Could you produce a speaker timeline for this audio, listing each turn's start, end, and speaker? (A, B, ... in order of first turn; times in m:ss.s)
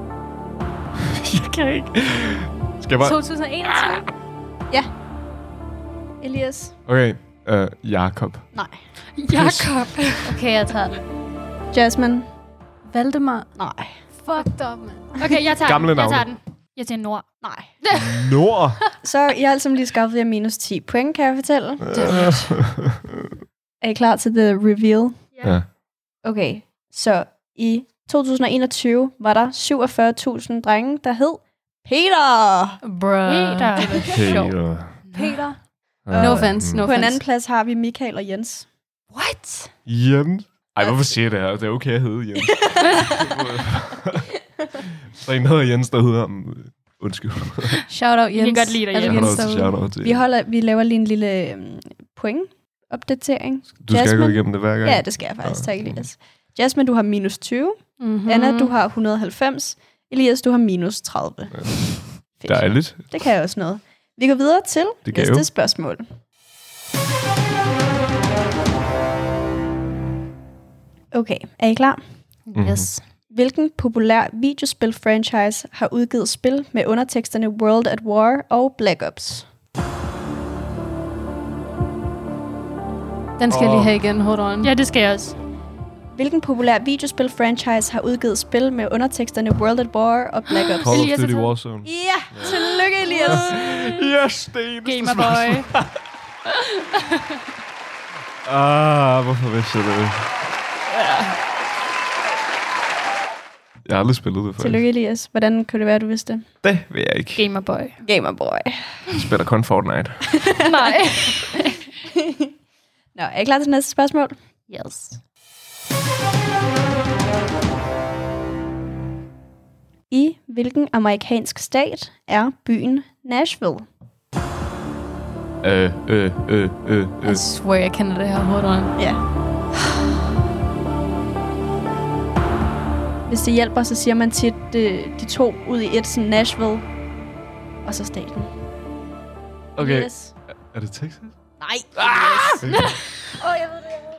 0:01.1-0:04.0 A
0:03.0-0:04.1 B
0:06.2-0:06.7 C
0:06.9-0:08.6 A
0:08.5-0:08.8 C
0:09.2-0:10.4 D
0:09.3-0:09.9 A
0:10.3-0:11.0 B
0:11.7-0:12.3 C
0:12.9-0:15.2 B
0:13.6-0:14.0 C
0:15.2-0:18.1 D
0:15.6-0:16.3 A
0:17.4-0:17.7 C
0:17.9-0:18.8 A
0:19.0-0:22.6 C
0:21.8-0:22.9 A
0:23.8-0:25.3 C
0:25.4-0:25.7 A
0:26.2-0:32.8 C
0:32.8-0:37.2 B
0:33.3-0:34.3 D
0:34.1-0:35.1 A
0:35.1-0:35.4 D
0:36.0-0:36.8 A
0:36.2-0:38.7 C
0:39.1-0:39.7 D
0:39.9-0:44.3 A
0:45.1-0:47.8 A
0:47.9-0:49.8 B
0:48.3-0:49.6 D
0:49.0-0:50.2 A
0:50.0-1:06.1 C
0:53.8-0:56.1 A
0:58.0-0:58.7 B
1:01.5-1:03.3 A
1:05.0-1:05.5 A
1:11.1-1:12.0 C
1:12.5-1:13.0 D
1:12.5-1:12.9 A
1:13.3-1:19.5 C
1:23.4-1:24.7 B
1:23.5-1:24.0 A
1:24.6-1:25.4 D
1:26.1-1:31.1 C
1:30.8-1:36.0 A
1:30.9-1:31.6 D
1:31.8-1:33.5 C
1:32.4-1:34.1 D
1:34.8-1:35.8 D
1:38.4-1:40.5 A
1:40.9-1:41.4 D
1:43.8-1:44.8 A
1:44.6-1:46.5 C
1:46.6-1:47.4 A
1:47.4-1:48.0 D
1:48.0-1:49.0 C
1:49.1-1:50.5 A
1:50.5-1:51.0 C
1:50.6-1:51.7 D
1:53.2-1:54.4 C
1:54.7-1:55.2 D
2:00.1-2:03.9 C
2:05.6-2:07.4 A
2:07.2-2:09.0 B
2:09.0-2:09.2 C
2:13.3-2:16.9 C
2:17.8-2:18.5 C
2:19.8-2:21.4 A
2:19.8-2:20.3 C
2:21.6-2:22.7 C
2:22.0-2:23.0 A
2:22.7-2:23.0 D
2:23.4-2:23.8 B